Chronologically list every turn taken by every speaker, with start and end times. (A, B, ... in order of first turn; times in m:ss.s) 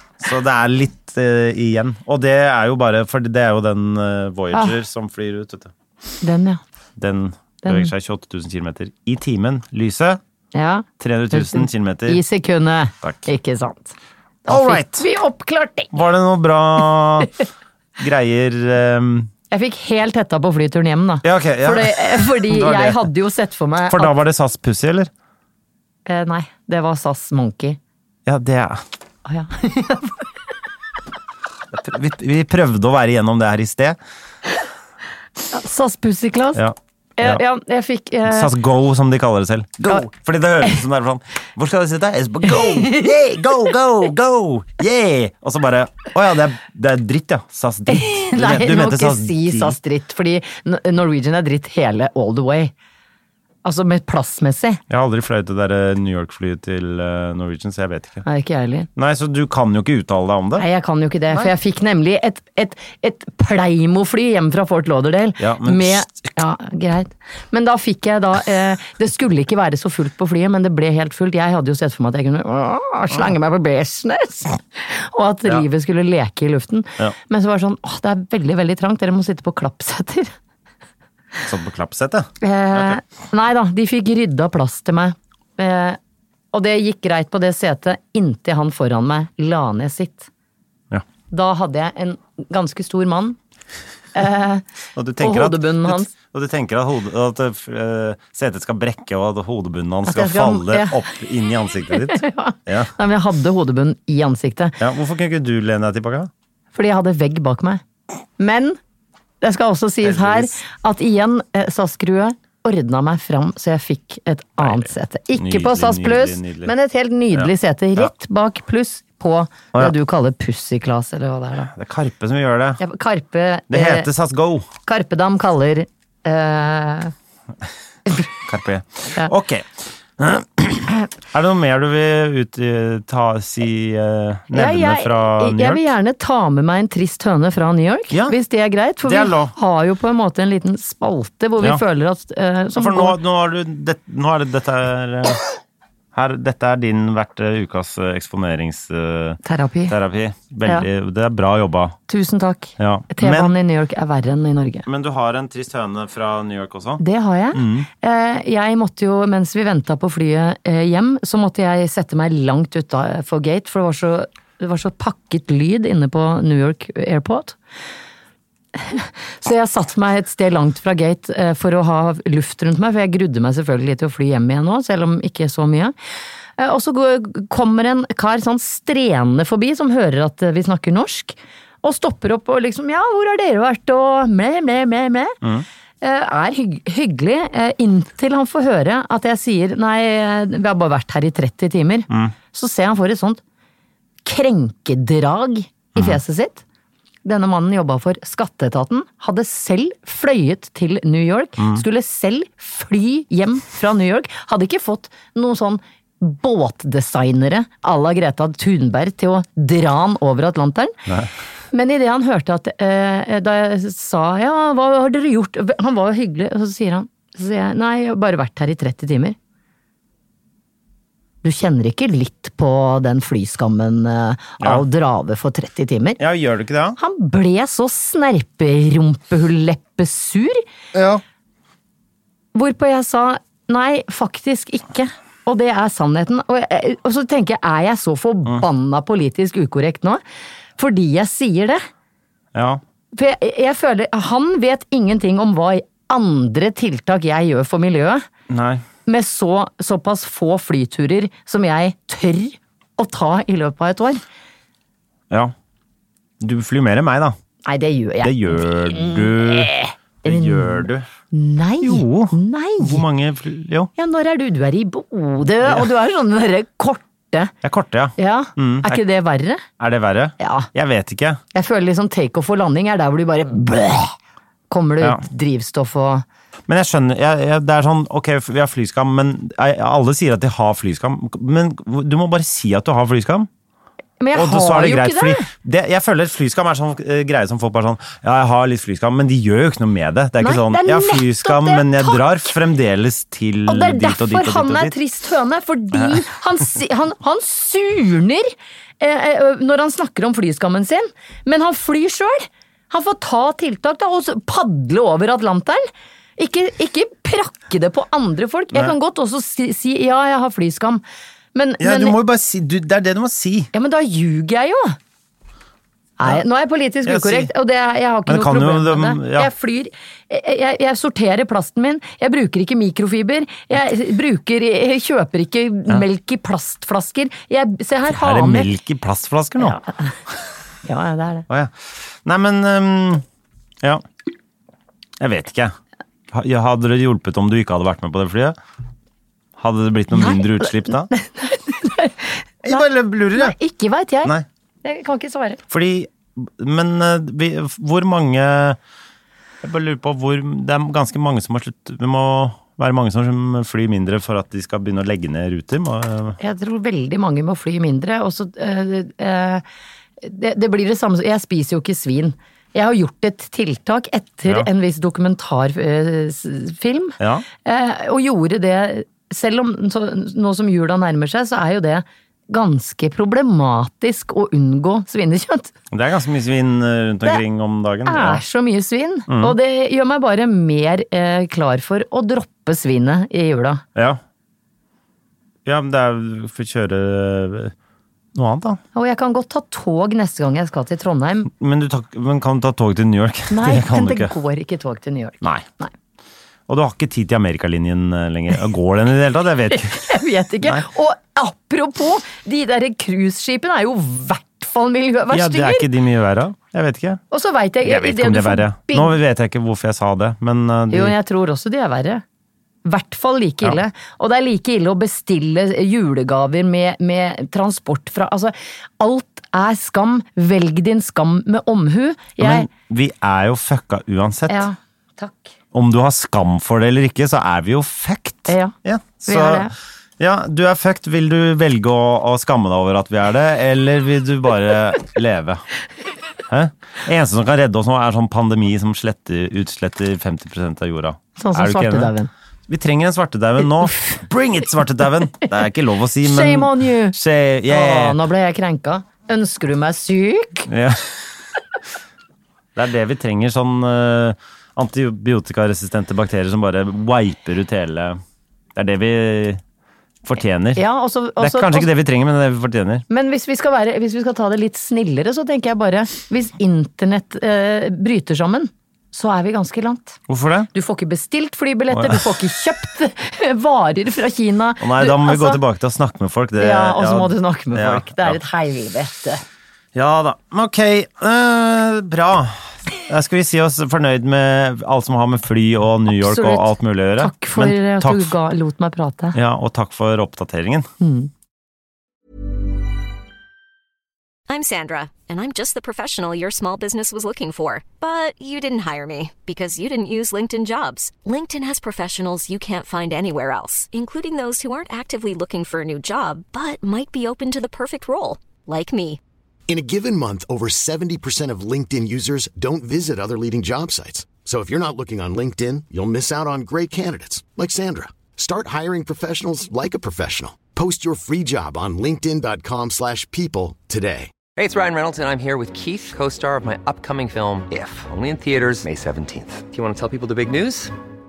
0:00.2-0:05.7 A
0:06.2-0:06.6 B
0:07.0-0:10.2 A
0:07.6-0:07.9 B
0:10.5-0:14.0 B
0:11.0-0:12.2 A
0:14.5-0:16.0 B
0:14.5-0:15.0 A
0:15.9-0:17.4 A
0:18.0-0:19.3 A
0:19.5-0:24.2 B
0:21.2-0:23.1 A
0:23.9-0:25.1 A
0:26.1-0:27.8 B
0:28.3-0:28.8 A
0:29.2-0:30.3 B
0:31.7-0:34.0 A
0:35.5-0:36.6 B
0:36.6-0:37.4 A
0:37.2-0:38.5 B
0:38.3-0:49.8 A
0:42.7-0:43.1 B
0:47.9-0:52.7 B
0:53.6-0:54.8 B
0:54.9-0:58.2 A
0:58.2-0:58.9 B
0:59.0-1:00.6 A
1:00.6-1:20.3 B
1:05.4-1:06.3 A
1:21.5-1:23.0 A
1:22.4-1:26.0 B
1:26.5-1:30.3 B
1:31.3-1:33.4 B
1:34.2-1:34.6 B
1:35.0-1:42.9 A
1:35.2-1:36.1 B
1:40.1-1:41.1 B
1:41.9-1:44.8 B
1:44.8-1:46.3 A
1:46.7-1:47.8 B
1:48.4-1:48.8 B
1:49.4-2:01.7 B
1:50.0-1:50.6 A
1:54.6-1:56.7 A
1:57.3-1:58.1 A
2:01.7-2:02.8 A
2:02.8-2:04.1 B
2:03.7-2:04.7 A
2:04.9-2:07.1 B
2:08.4-2:15.8 A
2:14.5-2:23.2 B
2:18.1-2:18.4 A
2:19.0-2:19.5 A
2:22.8-2:25.4 A
2:26.1-2:32.0 A
2:29.4-2:30.0 B
2:32.1-2:34.9 B
2:32.8-2:33.5 A
2:34.9-2:37.0 A
2:37.0-2:47.6 B
2:37.5-2:37.9 A
2:48.8-2:56.0 B
2:56.6-3:05.4 B
3:06.0-3:13.4 B
3:14.2-3:16.6 B
3:17.2-3:31.0 B
3:31.7-3:39.4 B
3:41.4-3:46.2 B
3:46.2-3:47.0 A
3:47.0-3:50.6 B
3:50.9-3:51.2 A
3:52.6-4:00.2 B
4:00.8-4:01.8 B
4:02.5-4:02.8 A
4:03.1-4:08.2 B
4:08.5-4:08.8 A
4:09.1-4:14.2 B
4:16.4-4:17.4 A
4:17.6-4:23.0 B
4:18.2-4:19.7 A
4:20.2-4:21.1 A
4:21.8-4:23.9 A
4:24.0-4:27.5 B
4:27.6-4:29.0 A
4:28.2-4:29.6 B
4:29.8-4:31.4 A
4:30.4-4:30.7 B
4:31.5-4:34.2 B
4:34.7-4:36.2 B
4:36.7-4:43.5 A
4:44.2-4:45.5 B
4:44.3-4:54.9 A
4:50.4-4:52.5 B
4:53.7-5:05.8 B
4:55.9-4:56.2 A
5:06.4-5:11.0 B
5:11.5-5:12.2 B
5:11.8-5:13.7 A
5:13.7-5:15.0 B
5:16.2-5:28.7 B
5:17.1-5:17.5 A
5:18.3-5:19.5 A
5:28.1-5:29.8 A
5:29.6-5:29.9 B
5:30.8-5:31.5 B
5:31.5-5:33.2 A
5:35.2-5:35.8 A
5:36.3-5:38.6 A
5:39.6-5:41.1 A
5:40.1-5:45.6 B
5:42.6-5:43.6 A
5:45.7-5:48.8 A
5:49.6-5:56.4 A
5:56.4-5:59.6 B
6:00.2-6:15.7 B
6:07.2-6:07.4 A
6:15.9-6:18.4 A
6:18.1-6:23.8 B
6:19.3-6:19.6 A
6:24.0-6:24.2 A
6:25.6-6:27.7 A
6:28.4-6:28.8 A
6:29.0-6:31.5 B
6:31.5-6:34.3 A
6:33.5-6:35.9 B
6:36.7-6:40.8 A
6:39.7-6:45.9 B
6:45.3-6:47.2 A
6:47.3-6:49.1 B
6:47.8-6:51.2 A
6:50.9-6:52.2 B
6:52.8-7:02.7 B
7:02.4-7:04.7 A
7:04.5-7:05.5 B
7:05.7-7:15.6 A
7:08.5-7:08.7 B
7:09.3-7:09.7 B
7:16.5-7:22.1 A
7:21.4-7:22.3 B
7:22.7-7:28.2 A
7:26.2-7:30.7 B
7:30.7-7:31.2 A
7:32.8-7:38.2 A
7:38.8-7:39.6 A
7:40.2-7:40.8 A
7:40.8-7:41.9 B
7:41.4-7:43.0 A
7:43.1-7:50.2 B
7:50.3-7:50.7 A
7:50.7-7:55.6 B
7:51.9-7:52.2 A
7:54.8-7:58.4 A
7:56.6-7:59.4 B
7:59.9-8:08.3 A
8:06.1-8:09.4 B
8:09.3-8:10.9 A
8:11.0-8:11.3 B
8:14.5-8:29.2 C
8:29.7-8:44.3 D
8:44.6-8:50.9 E